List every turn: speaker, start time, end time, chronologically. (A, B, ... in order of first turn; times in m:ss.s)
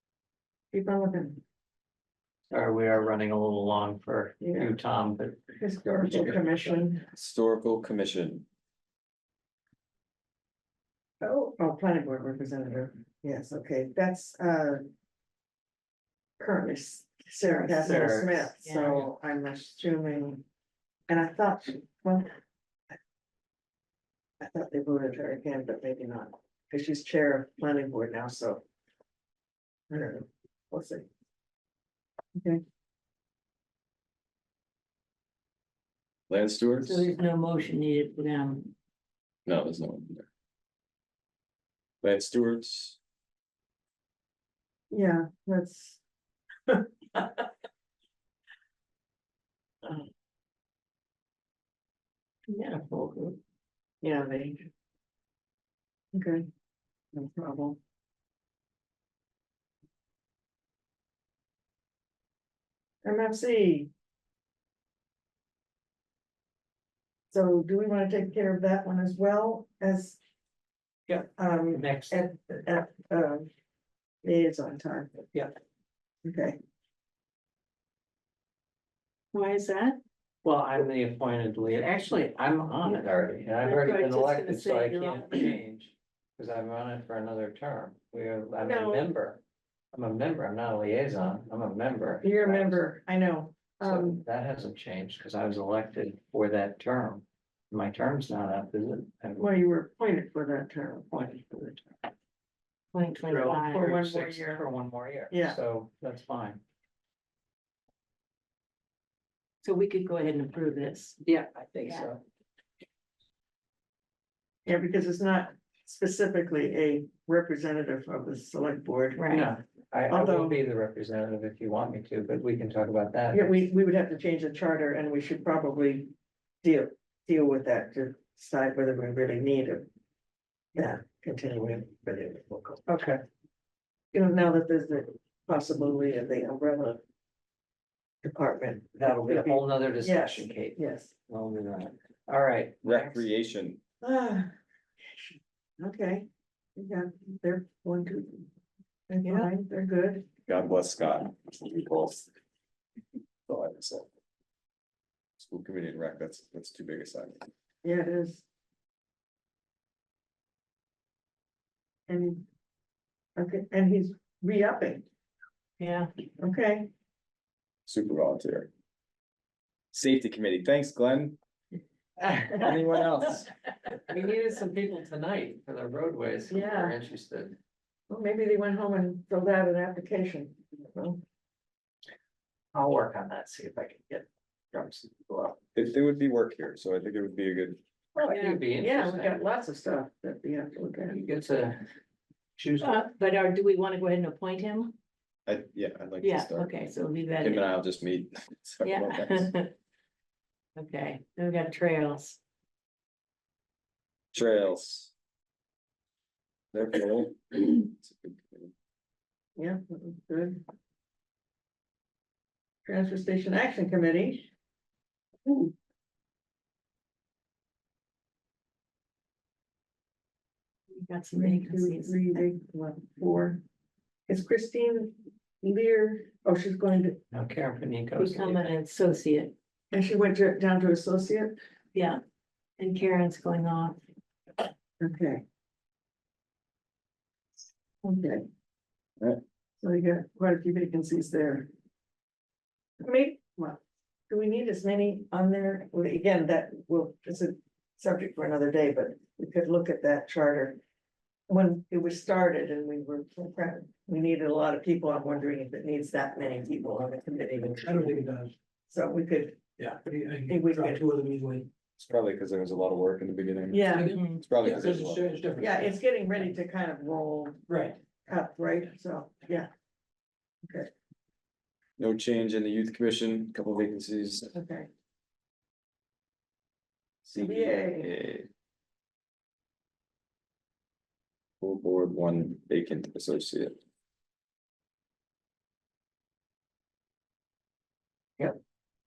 0:00.7-0:01.4 A
0:02.5-0:05.5 B
0:04.4-0:04.8 A
0:05.6-0:07.1 A
0:07.1-0:08.5 C
0:11.2-0:14.9 A
0:16.4-0:20.4 A
0:17.5-0:17.9 D
0:17.8-0:18.5 B
0:18.6-0:19.1 D
0:21.1-0:22.4 A
0:24.4-0:28.6 A
0:29.9-0:31.1 A
0:32.4-0:32.6 A
0:36.3-0:37.1 C
0:36.8-0:38.7 D
0:39.5-0:40.3 C
0:42.0-0:43.0 C
0:44.9-0:46.0 A
0:46.7-0:47.5 A
0:52.5-0:53.4 D
0:54.0-0:54.7 A
0:56.1-0:56.5 A
0:57.1-0:57.8 A
1:03.0-1:03.9 A
1:07.3-1:10.2 A
1:11.1-1:12.3 B
1:11.3-1:13.5 A
1:14.2-1:15.1 A
1:16.2-1:16.6 A
1:19.3-1:20.0 D
1:20.4-1:29.4 B
1:21.7-1:25.6 D
1:28.6-1:29.1 A
1:29.9-1:32.9 B
1:32.2-1:34.2 A
1:33.8-1:39.5 B
1:39.4-1:41.8 A
1:42.9-1:43.9 D
1:43.2-1:46.6 B
1:43.4-1:44.7 A
1:45.3-1:45.6 A
1:49.6-1:52.1 D
1:51.4-1:52.2 B
1:54.7-1:59.3 A
1:59.2-1:59.5 D
1:59.3-2:03.6 B
2:00.1-2:00.6 A
2:03.3-2:06.1 A
2:06.6-2:09.9 A
2:10.8-2:12.8 A
2:12.9-2:13.2 B
2:14.1-2:17.0 A
2:18.2-2:21.1 A
2:19.0-2:23.3 B
2:22.8-2:23.8 C
2:24.0-2:24.5 A
2:25.1-2:28.5 A
2:29.1-2:30.3 A
2:30.5-2:32.3 C
2:33.5-2:34.1 C
2:35.4-2:37.5 C
2:37.8-2:38.5 A
2:42.1-2:42.4 A
2:43.4-2:45.0 A
2:45.8-2:46.1 D
2:46.4-2:46.9 A
2:47.9-2:48.7 C
2:49.9-2:51.4 C
2:52.5-2:53.5 C
2:54.1-2:57.6 B
2:56.5-2:57.0 A
2:58.1-3:01.2 A
3:02.7-3:05.6 B
3:05.8-3:07.8 C
3:08.2-3:09.4 B
3:08.2-3:11.2 A
3:08.3-3:08.6 D
3:11.1-3:11.8 B
3:12.6-3:13.1 B
3:12.8-3:15.0 D
3:15.5-3:16.8 C
3:16.2-3:17.7 D
3:17.4-3:19.5 C
3:18.8-3:19.7 D
3:20.8-3:22.4 D
3:24.3-3:25.1 C
3:26.7-3:28.7 C
3:29.6-3:30.6 A
3:32.9-3:34.5 A
3:35.4-3:35.7 A
3:40.9-3:42.4 D
3:41.3-3:43.6 A
3:44.3-3:47.2 A
3:47.3-3:48.7 B
3:48.2-3:49.5 D
3:49.9-3:51.6 A
3:51.9-3:52.2 D
3:52.8-3:54.0 D
3:55.0-3:55.4 A
3:58.0-3:58.4 A
3:59.8-4:01.7 A
4:03.0-4:10.8 A
4:11.5-4:18.2 A
4:17.6-4:18.5 E
4:18.9-4:19.6 A
4:19.8-4:21.7 E
4:20.5-4:21.0 A
4:22.0-4:25.3 C
4:23.7-4:24.2 A
4:23.9-4:26.0 E
4:24.1-4:24.4 D
4:25.6-4:27.6 A
4:27.7-4:28.0 E
4:28.2-4:29.7 A
4:32.0-4:34.5 C
4:34.5-4:34.9 A
4:37.2-4:38.5 C
4:37.4-4:38.1 A
4:41.6-4:43.8 C